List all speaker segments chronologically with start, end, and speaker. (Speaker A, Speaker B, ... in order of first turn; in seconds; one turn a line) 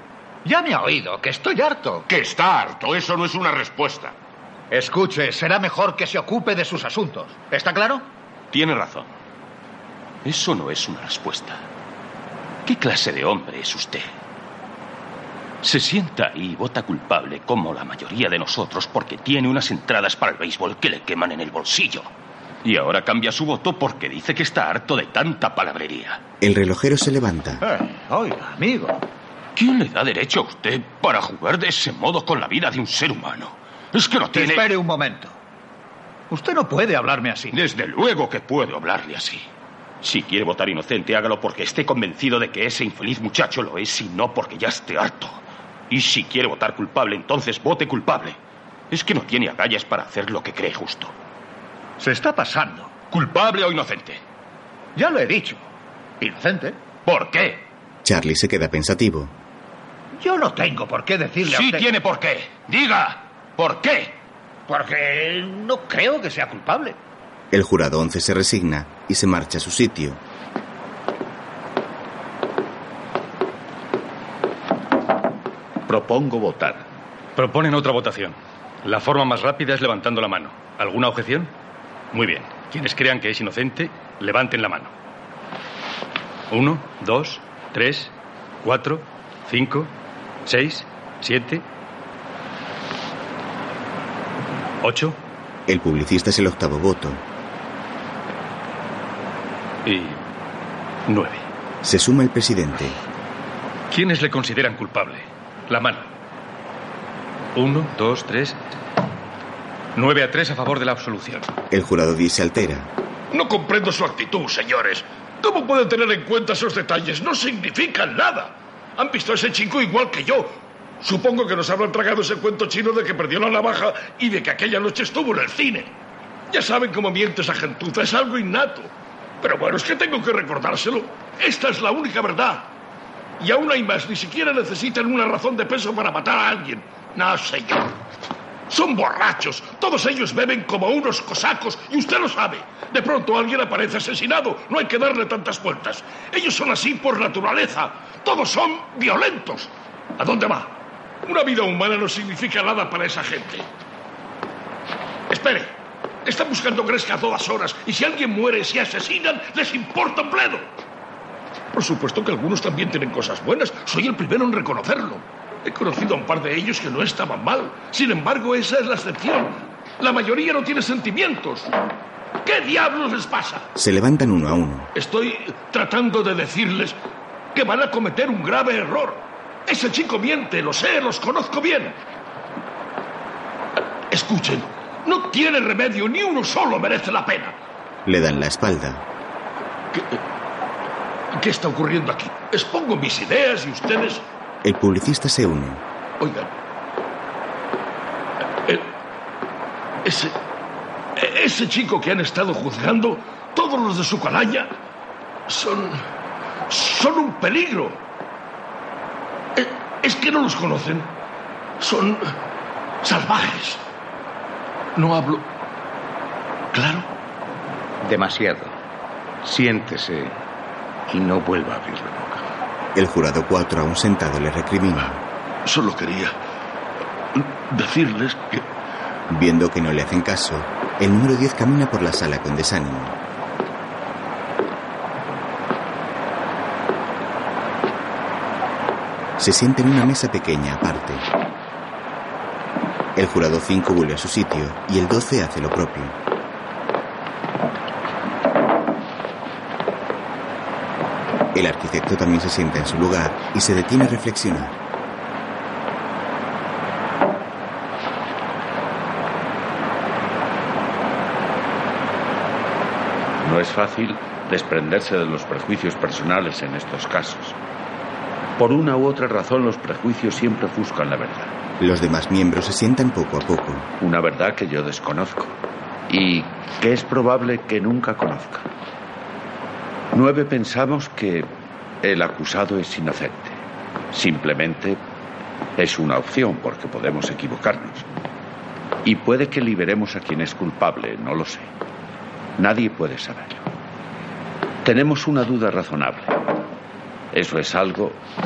Speaker A: 0.5-2.1
Speaker B: 2.1-4.2
Speaker A: 4.7-8.1
Speaker C: 8.5-9.1
Speaker C: 10.2-11.6
Speaker C: 12.7-14.1
Speaker C: 15.6-22.1
Speaker C: 22.6-26.2
Speaker D: 26.4-27.6
Speaker A: 27.6-29.0
Speaker C: 29.6-34.8
Speaker A: 34.3-35.4
Speaker A: 36.3-37.5
Speaker C: 37.5-39.5
Speaker C: 40.0-48.4
Speaker C: 48.9-51.1
Speaker A: 52.0-53.0
Speaker C: 53.0-54.2
Speaker A: 55.0-55.6
Speaker A: 56.2-56.8
Speaker C: 57.0-57.6
Speaker D: 58.0-59.3
Speaker A: 60.2-61.9
Speaker C: 61.4-64.2
Speaker A: 64.7-67.0
Speaker D: 67.5-70.2
Speaker E: 75.9-76.8
Speaker F: 77.4-81.5
Speaker F: 82.1-84.9
Speaker F: 86.5-89.9
Speaker F: 90.5-91.7
Speaker F: 94.8-95.2
Speaker D: 95.7-97.2
Speaker F: 99.8-100.2
Speaker F: 101.1-101.4
Speaker D: 101.8-103.0
Speaker F: 103.9-106.1
Speaker F: 107.5-108.6
Speaker F: 110.0-111.5
Speaker D: 111.7-112.9
Speaker G: 113.3-125.9
Speaker G: 126.5-132.7
Speaker G: 133.4-138.0
Speaker G: 138.7-153.7
Speaker G: 155.3-155.7
Speaker G: 156.2-160.7
Speaker G: 161.7-171.7
Speaker G: 172.4-173.7
Speaker D: 173.8-174.9
Speaker G: 174.9-177.0
Speaker G: 177.6-182.0
Speaker G: 184.1-187.6
Speaker D: 188.1-189.0
Speaker G: 189.9-190.2
Speaker G: 191.3-194.2
Speaker D: 194.6-195.8
Speaker G: 196.2-196.5
Speaker G: 198.7-198.9
Speaker G: 200.0-200.4
Speaker G: 201.2-204.7
Speaker G: 205.5-206.0
Speaker G: 206.7-208.0
Speaker G: 209.6-211.1
Speaker G: 211.8-212.3
Speaker G: 213.0-213.8
Speaker G: 215.0-215.5
Speaker G: 216.7-217.1
Speaker H: 218.0-218.7
Speaker H: 219.4-220.4
Speaker H: 221.1-222.4
Speaker D: 222.9-225.2
Speaker G: 225.7-226.3
Speaker G: 227.3-228.7
Speaker D: 229.3-233.2
Speaker D: 239.4-241.3
Speaker D: 243.2-246.2
Speaker D: 251.5-254.8
Speaker E: 263.4-267.6
Speaker E: 268.6-271.5
Speaker D: 271.8-273.9
Speaker E: 274.0-275.6
Speaker E: 276.1-278.7
Speaker E: 280.1-281.5
Speaker E: 282.0-283.6
Speaker E: 284.1-285.0
Speaker E: 285.8-288.1
Speaker E: 289.0-291.7
Speaker E: 292.6-293.7
Speaker E: 294.8-296.4
Speaker E: 297.3-298.2